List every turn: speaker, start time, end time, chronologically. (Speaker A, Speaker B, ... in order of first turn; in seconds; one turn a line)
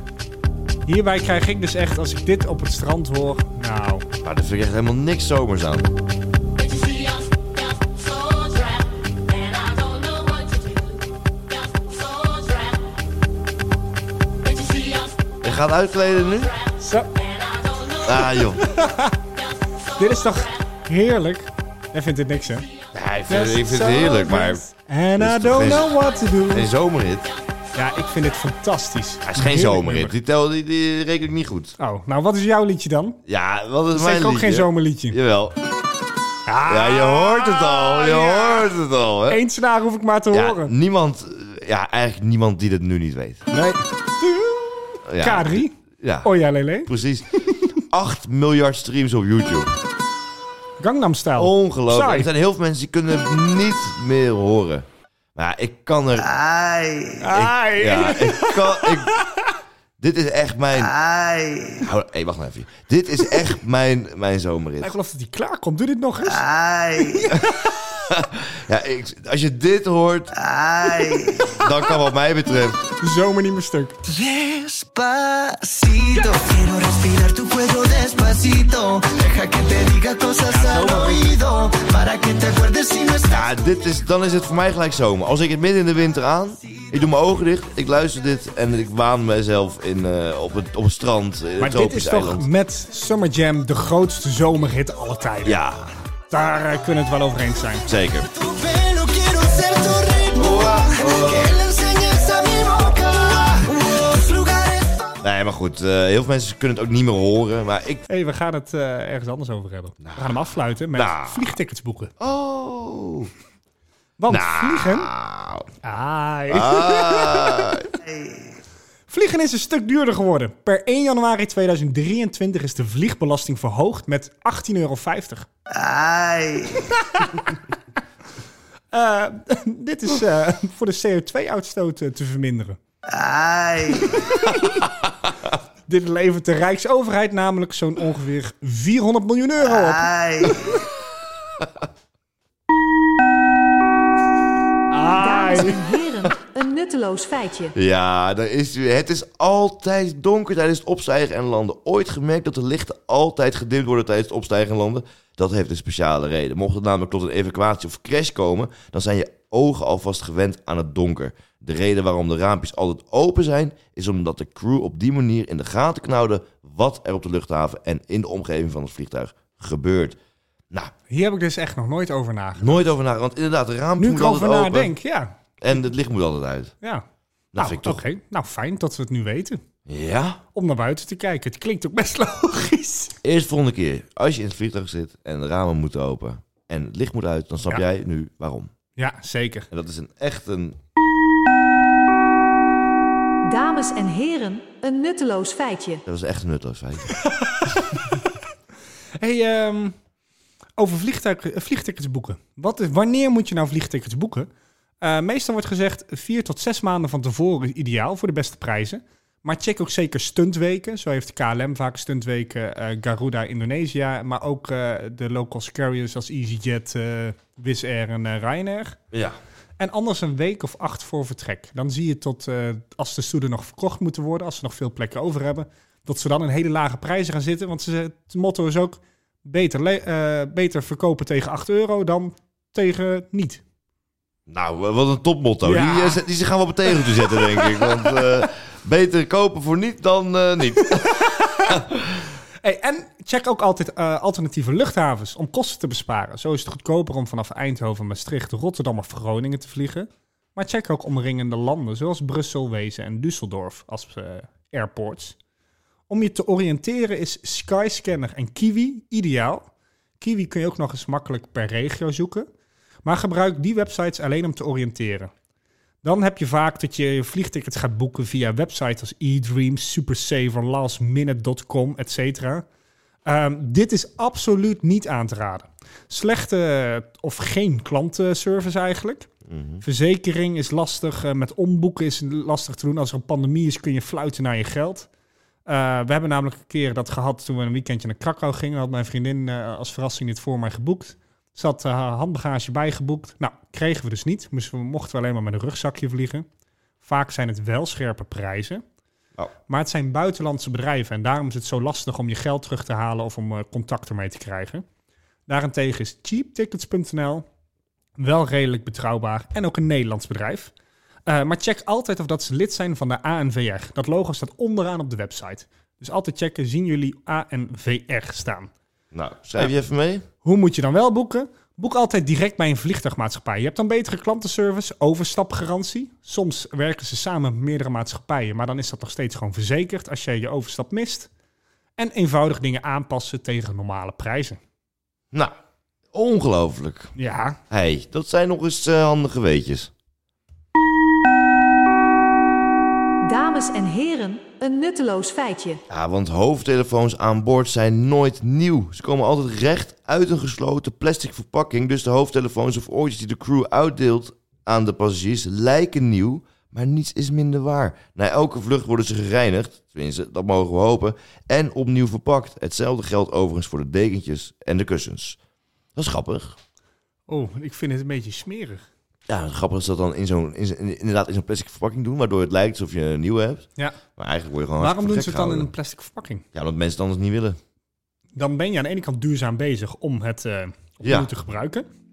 Speaker A: 0.9-4.1
Speaker B: 4.2-5.9
Speaker B: 15.4-16.5
Speaker A: 16.8-17.1
Speaker B: 18.0-18.6
Speaker A: 18.7-19.2
Speaker A: 20.0-22.7
Speaker B: 22.9-24.6
Speaker A: 23.3-26.7
Speaker B: 25.2-26.0
Speaker B: 26.5-27.3
Speaker A: 27.8-30.2
Speaker B: 29.3-31.8
Speaker A: 31.8-33.2
Speaker B: 33.3-35.6
Speaker A: 33.9-35.2
Speaker A: 36.5-38.7
Speaker B: 36.7-39.4
Speaker A: 39.3-40.7
Speaker B: 40.3-43.4
Speaker A: 43.5-46.9
Speaker B: 45.1-46.3
Speaker B: 46.8-47.3
Speaker B: 47.9-49.8
Speaker A: 50.8-52.3
Speaker B: 51.4-56.3
Speaker C: 56.2-57.1
Speaker A: 57.2-59.5
Speaker B: 57.3-59.1
Speaker B: 60.0-60.9
Speaker C: 60.8-61.8
Speaker B: 61.8-64.9
Speaker A: 64.8-66.4
Speaker C: 66.3-67.2
Speaker A: 67.1-67.4
Speaker B: 68.1-70.3
Speaker C: 70.3-71.5
Speaker B: 71.5-72.9
Speaker A: 73.0-74.0
Speaker C: 74.0-83.8
Speaker A: 80.5-81.3
Speaker B: 83.3-92.5
Speaker A: 91.6-95.6
Speaker B: 95.4-95.9
Speaker A: 96.3-97.9
Speaker B: 97.8-98.3
Speaker C: 98.2-105.2
Speaker B: 100.3-101.6
Speaker B: 105.2-108.0
Speaker A: 108.1-112.1
Speaker B: 110.0-110.3
Speaker B: 110.9-111.4
Speaker B: 112.2-113.3
Speaker A: 114.2-115.1
Speaker B: 114.3-115.7
Speaker A: 115.8-117.8
Speaker B: 116.5-117.9
Speaker C: 118.1-118.4
Speaker A: 119.1-125.5
Speaker C: 125.7-126.8
Speaker A: 127.0-127.3
Speaker A: 128.9-132.8
Speaker C: 133.1-134.2
Speaker A: 134.3-134.8
Speaker A: 135.9-140.1
Speaker C: 139.7-140.6
Speaker A: 144.9-145.8
Speaker D: 145.1-147.8
Speaker B: 147.8-170.2
Speaker A: 171.1-172.9
Speaker B: 172.6-174.9
Speaker A: 174.0-175.3
Speaker B: 175.6-176.7
Speaker B: 177.5-178.0
Speaker A: 177.6-179.6
Speaker B: 179.9-180.4
Speaker A: 180.6-183.2
Speaker B: 183.2-188.7
Speaker A: 189.0-189.7
Speaker B: 189.7-190.8
Speaker D: 193.4-196.0
Speaker B: 196.1-197.2
Speaker A: 197.2-198.2
Speaker A: 199.2-199.9
Speaker A: 200.8-204.5
Speaker A: 205.0-219.0
Speaker B: 219.1-219.4
Speaker A: 219.8-233.6
Speaker B: 234.5-242.0
Speaker A: 235.6-236.2
Speaker A: 236.9-238.2
Speaker A: 241.0-241.8
Speaker A: 242.6-255.4
Speaker A: 256.1-259.7
Speaker A: 260.2-262.5
Speaker A: 263.1-265.3
Speaker A: 266.0-272.6
Speaker A: 273.3-279.3
Speaker B: 279.5-279.8
Speaker A: 279.8-285.1
Speaker A: 285.7-296.5
Speaker A: 297.0-298.8
Speaker A: 299.7-304.8
Speaker A: 305.5-307.4
Speaker A: 308.2-310.7
Speaker A: 311.3-318.7
Speaker B: 319.1-320.3
Speaker A: 320.4-331.3
Speaker A: 332.0-334.6
Speaker B: 336.1-337.1
Speaker A: 337.2-337.6
Speaker B: 337.7-339.9
Speaker D: 343.2-345.8
Speaker B: 345.9-365.4
Speaker B: 365.9-366.6
Speaker A: 367.3-368.9
Speaker B: 369.3-375.7
Speaker A: 374.8-376.4
Speaker B: 376.5-377.6
Speaker A: 378.4-381.9
Speaker B: 381.0-381.3